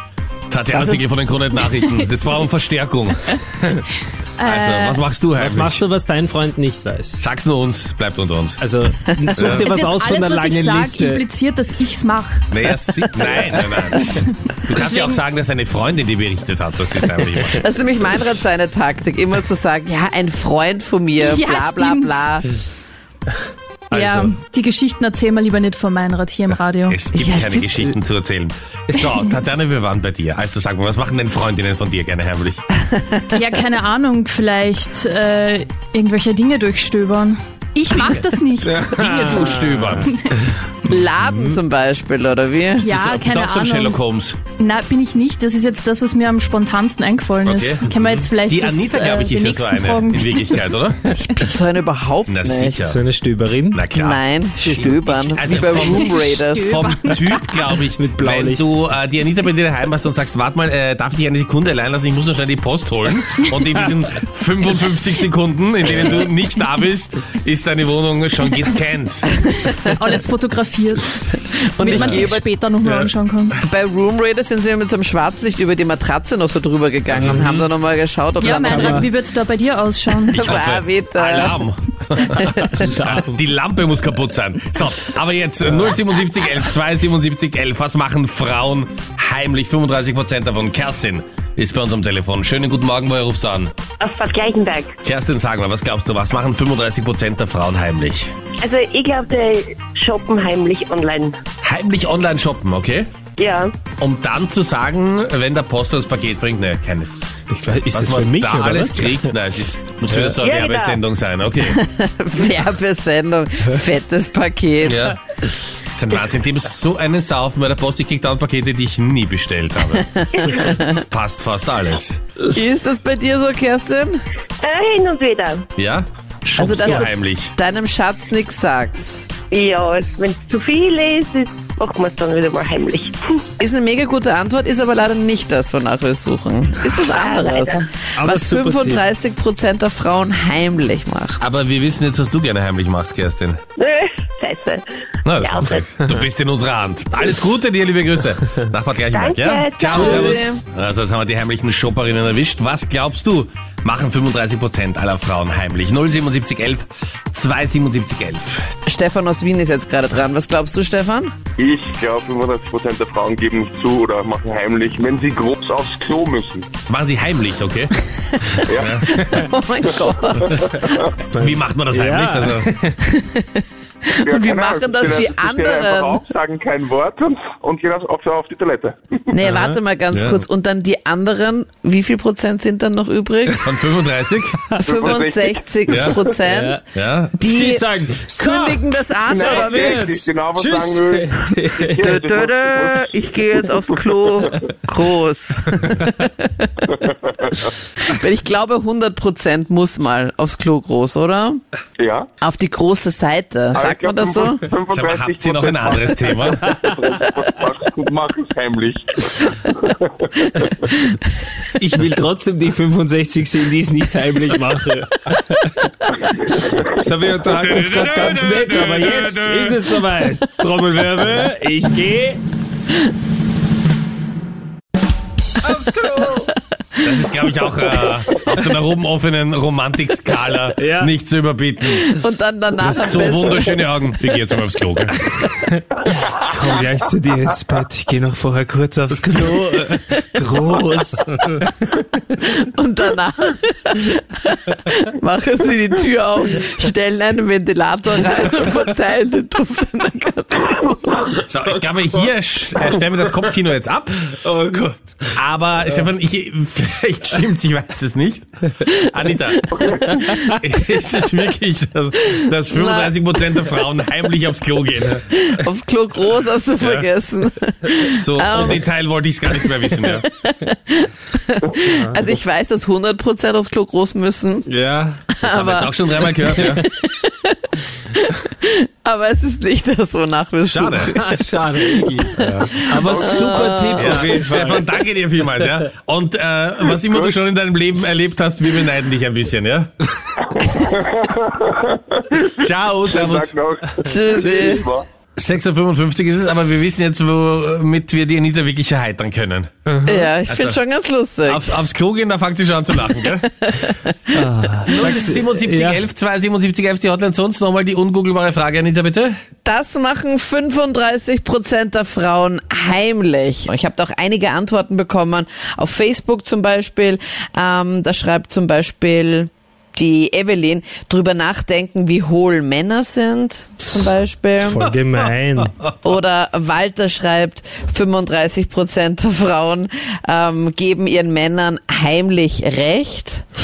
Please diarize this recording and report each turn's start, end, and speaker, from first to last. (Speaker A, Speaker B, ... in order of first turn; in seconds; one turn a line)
Speaker A: 0.5-3.2
Speaker B: 0.7-1.1
Speaker C: 1.7-2.1
Speaker C: 4.4-5.0
Speaker A: 4.5-5.8
Speaker D: 5.4-7.2
Speaker A: 7.2-8.6
Speaker D: 8.6-11.2
Speaker B: 9.3-9.6
Speaker A: 9.3-9.7
Speaker C: 9.6-12.5
Speaker A: 12.5-17.6
Speaker C: 14.0-15.2
Speaker B: 17.5-22.5
Speaker C: 21.2-22.4
Speaker D: 23.9-24.3
Speaker C: 23.9-27.1
Speaker A: 26.5-32.6
Speaker B: 27.1-27.8
Speaker B: 33.0-33.3
Speaker C: 33.3-39.5
Speaker A: 37.9-38.3
Speaker D: 38.6-40.1
Speaker A: 38.9-40.1
Speaker C: 40.0-40.4
Speaker B: 40.9-43.0
Speaker D: 41.2-41.6
Speaker C: 42.8-44.0
Speaker A: 43.0-44.4
Speaker C: 44.6-51.5
Speaker A: 47.5-48.0
Speaker A: 48.5-51.0
Speaker B: 51.4-52.8
Speaker A: 52.3-53.0
Speaker D: 52.9-53.8
Speaker A: 53.7-69.3
Speaker B: 53.9-56.8
Speaker C: 55.6-57.7
Speaker D: 58.0-58.7
Speaker C: 69.8-71.2
Speaker B: 71.8-72.4
Speaker C: 71.8-73.6
Speaker B: 73.6-79.1
Speaker D: 77.2-77.6
Speaker C: 78.4-80.5
Speaker D: 78.5-79.1
Speaker B: 80.3-81.6
Speaker A: 80.3-93.7
Speaker B: 82.5-82.8
Speaker D: 82.7-83.4
Speaker E: 94.0-94.9
Speaker A: 95.0-98.3
Speaker E: 98.6-101.4
Speaker A: 101.6-103.2
Speaker E: 103.4-103.8
Speaker A: 104.0-111.8
Speaker D: 107.5-109.3
Speaker D: 110.1-110.4
Speaker E: 110.4-111.0
Speaker B: 111.8-115.1
Speaker A: 114.8-115.2
Speaker A: 116.0-120.0
Speaker B: 120.0-121.0
Speaker A: 120.7-122.2
Speaker B: 122.4-124.2
Speaker E: 124.6-125.7
Speaker A: 125.8-127.5
Speaker B: 126.6-129.2
Speaker E: 129.5-133.4
Speaker B: 133.6-141.4
Speaker E: 136.9-137.9
Speaker D: 138.2-139.0
Speaker A: 141.4-143.6
Speaker E: 143.8-144.8
Speaker A: 145.2-158.6
Speaker E: 145.4-145.9
Speaker E: 149.1-150.4
Speaker B: 149.9-150.6
Speaker B: 158.9-161.3
Speaker F: 161.6-166.7
Speaker A: 166.9-167.9
Speaker F: 168.7-169.1
Speaker A: 168.8-169.1
Speaker B: 169.1-171.0
Speaker D: 171.3-173.0
Speaker A: 171.4-172.7
Speaker B: 173.1-173.6
Speaker B: 174.2-176.2
Speaker F: 174.2-179.2
Speaker B: 179.3-183.6
Speaker D: 179.4-179.8
Speaker A: 180.1-180.4
Speaker A: 183.6-184.6
Speaker B: 184.8-186.8
Speaker F: 184.8-186.3
Speaker A: 185.9-186.2
Speaker D: 186.5-186.8
Speaker A: 186.9-187.4
Speaker B: 187.4-190.1
Speaker D: 187.4-188.8
Speaker F: 189.3-194.5
Speaker D: 189.4-192.2
Speaker B: 192.0-196.8
Speaker B: 198.1-201.6
Speaker F: 202.0-202.3
Speaker B: 202.4-204.6
Speaker F: 203.7-209.1
Speaker A: 204.9-206.7
Speaker D: 211.8-215.7
Speaker D: 217.0-222.4
Speaker A: 217.5-219.9
Speaker D: 225.6-226.5
Speaker A: 227.0-232.2
Speaker D: 230.8-231.1
Speaker B: 231.9-234.4
Speaker A: 232.8-235.3
Speaker D: 236.4-241.5
Speaker B: 242.4-251.2
Speaker A: 251.4-254.3
Speaker D: 254.4-255.4
Speaker A: 255.3-265.2
Speaker B: 259.8-260.3
Speaker B: 262.7-263.1
Speaker B: 265.3-268.8
Speaker A: 268.2-270.2
Speaker B: 269.5-274.7
Speaker D: 274.7-275.2
Speaker B: 275.4-277.6
Speaker A: 275.4-276.8
Speaker B: 278.2-281.2
Speaker A: 280.7-281.1
Speaker D: 281.1-284.9
Speaker B: 281.8-284.6
Speaker A: 282.4-282.7
Speaker F: 283.1-284.2
Speaker A: 284.0-289.9
Speaker F: 287.1-287.3
Speaker F: 290.6-292.4
Speaker A: 292.6-293.6
Speaker F: 293.1-295.1
Speaker B: 294.0-294.9
Speaker A: 295.4-299.7
Speaker D: 299.9-300.2
Speaker B: 300.1-301.7
Speaker A: 300.5-300.8
Speaker A: 301.5-303.5
Speaker B: 303.7-304.4
Speaker D: 304.4-306.0
Speaker A: 304.9-309.3
Speaker B: 309.6-324.9
Speaker D: 324.6-325.7
Speaker A: 325.2-325.7
Speaker B: 326.0-333.4